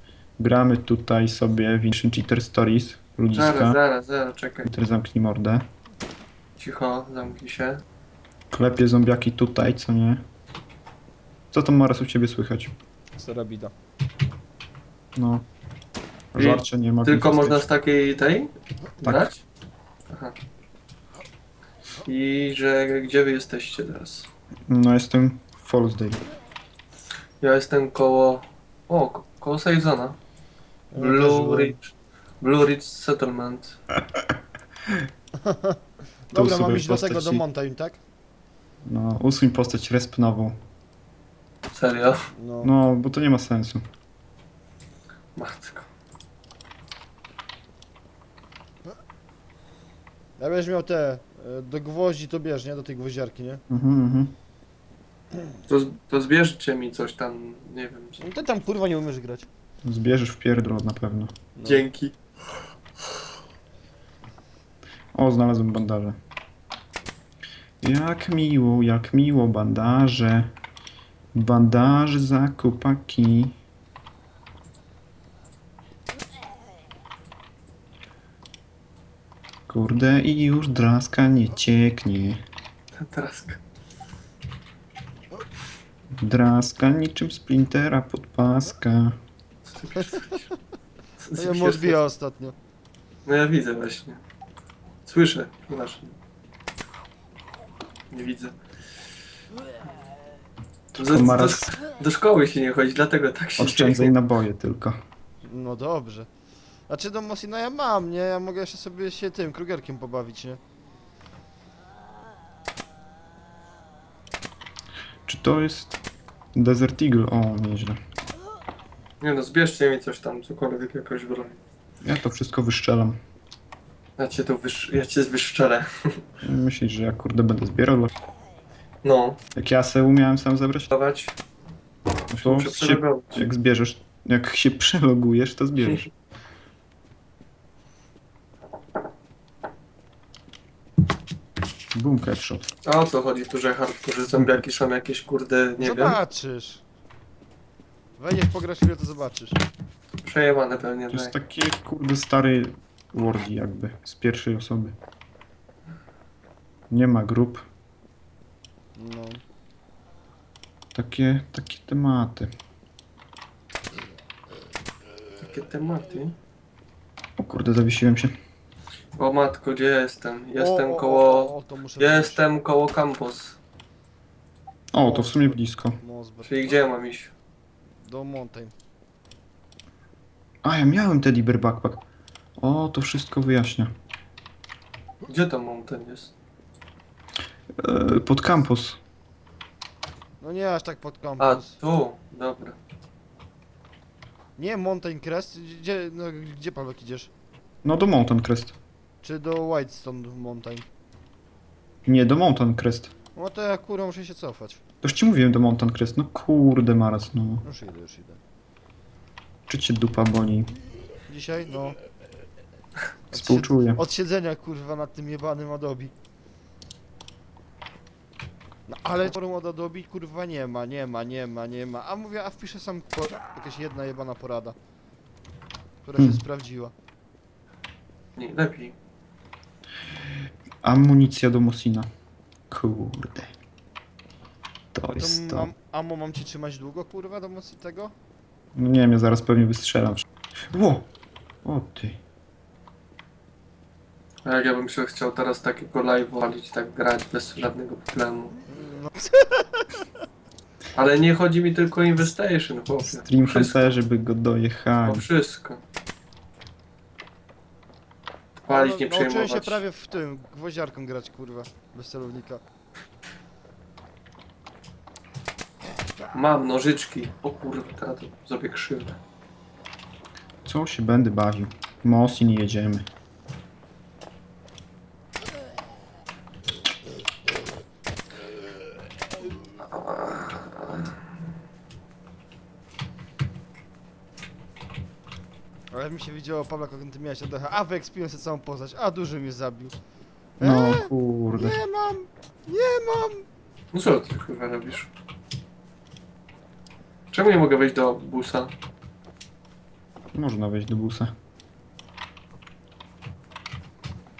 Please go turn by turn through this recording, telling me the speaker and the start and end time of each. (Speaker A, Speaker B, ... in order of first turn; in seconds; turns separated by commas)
Speaker A: 0.4-3.8, Speaker B: 3.3-4.7, Speaker A: 4.7-5.7, Speaker B: 6.6-7.8, Speaker A: 8.5-10.2, Speaker A: 11.5-12.8, Speaker C: 13.2-13.7, Speaker A: 15.2-15.4, Speaker A: 16.3-17.7, Speaker B: 16.4-19.4, Speaker A: 19.0-19.3, Speaker B: 22.1-24.3, Speaker A: 24.7-26.2, Speaker B: 27.4-30.2, Speaker C: 30.9-31.8, Speaker B: 31.0-33.8, Speaker A: 34.1-34.4, Speaker C: 35.4-35.8, Speaker C: 36.3-38.0, Speaker A: 36.3-37.4, Speaker A: 38.9-40.6, Speaker B: 41.7-42.3, Speaker C: 42.4-42.7, Speaker A: 42.6-43.8, Speaker B: 45.4-45.9, Speaker C: 50.4-53.6, Speaker A: 53.7-54.3, Speaker B: 55.7-58.2, Speaker C: 58.2-59.5, Speaker A: 59.8-61.3, Speaker C: 61.6-61.9, Speaker B: 61.7-62.1, Speaker A: 65.1-66.2, Speaker A: 67.8-70.5, Speaker A: 71.3-73.6, Speaker A: 79.7-82.4, Speaker B: 83.0-83.6, Speaker A: 86.1-89.2, Speaker B: 89.7-90.5, Speaker B: 91.2-92.0, Speaker C: 91.3-92.5, Speaker B: 93.3-94.2, Speaker B: 95.1-96.2, Speaker B: 98.1-98.6, Speaker A: 101.0-101.7, Speaker B: 101.0-104.1, Speaker A: 103.6-105.0, Speaker C: 105.4-106.3, Speaker C: 106.9-110.6, Speaker A: 115.3-116.0, Speaker A: 116.5-118.0, Speaker B: 119.2-121.6, Speaker A: 122.0-123.2, Speaker B: 124.2-126.2, Speaker A: 126.4-128.1, Speaker B: 129.0-129.4, Speaker A: 129.6-130.9, Speaker B: 130.9-131.4, Speaker A: 132.3-136.1, Speaker B: 132.4-133.4, Speaker A: 141.9-142.7, Speaker B: 142.8-146.2, Speaker C: 145.8-146.8, Speaker C: 148.2-149.6, Speaker B: 150.2-151.3, Speaker A: 151.1-155.0, Speaker A: 156.9-157.7, Speaker C: 159.0-159.4, Speaker A: 160.9-162.5, Speaker B: 165.4-166.4, Speaker A: 167.4-168.4, Speaker B: 169.2-173.6, Speaker C: 170.6-172.4, Speaker A: 174.9-176.0, Speaker C: 175.0-176.8, Speaker B: 176.4-177.3, Speaker C: 178.0-178.7, Speaker A: 180.6-182.0, Speaker A: 182.6-183.9, Speaker B: 185.3-186.3, Speaker A: 187.8-189.0, Speaker C: 190.4-191.8, Speaker B: 191.4-192.8, Speaker C: 194.6-197.3, Speaker A: 197.8-198.8, Speaker C: 199.2-200.9, Speaker A: 202.1-203.1, Speaker C: 203.3-204.8, Speaker A: 205.0-207.6, Speaker C: 207.6-208.4, Speaker A: 209.7-210.7, Speaker C: 211.3-212.0, Speaker C: 213.3-216.1, Speaker A: 213.3-214.0, Speaker C: 218.9-224.8, Speaker C: 226.0-226.9, Speaker B: 228.4-229.0, Speaker A: 230.2-232.1, Speaker A: 232.7-233.6, Speaker A: 234.9-235.7, Speaker C: 235.1-238.1, Speaker A: 238.8-241.1, Speaker A: 241.6-242.2, Speaker B: 244.4-248.6, Speaker C: 248.7-250.1, Speaker B: 250.9-254.0, Speaker A: 253.0-255.3, Speaker B: 255.1-255.8, Speaker B: 258.6-259.8, Speaker C: 258.7-262.6, Speaker B: 266.3-269.2, Speaker A: 270.6-273.1, Speaker B: 279.8-281.2, Speaker C: 285.9-289.9, Speaker C: 290.6-293.4, Speaker A: 290.6-291.8, Speaker B: 293.9-295.1, Speaker B: 297.3-298.7, Speaker A: 300.3-301.3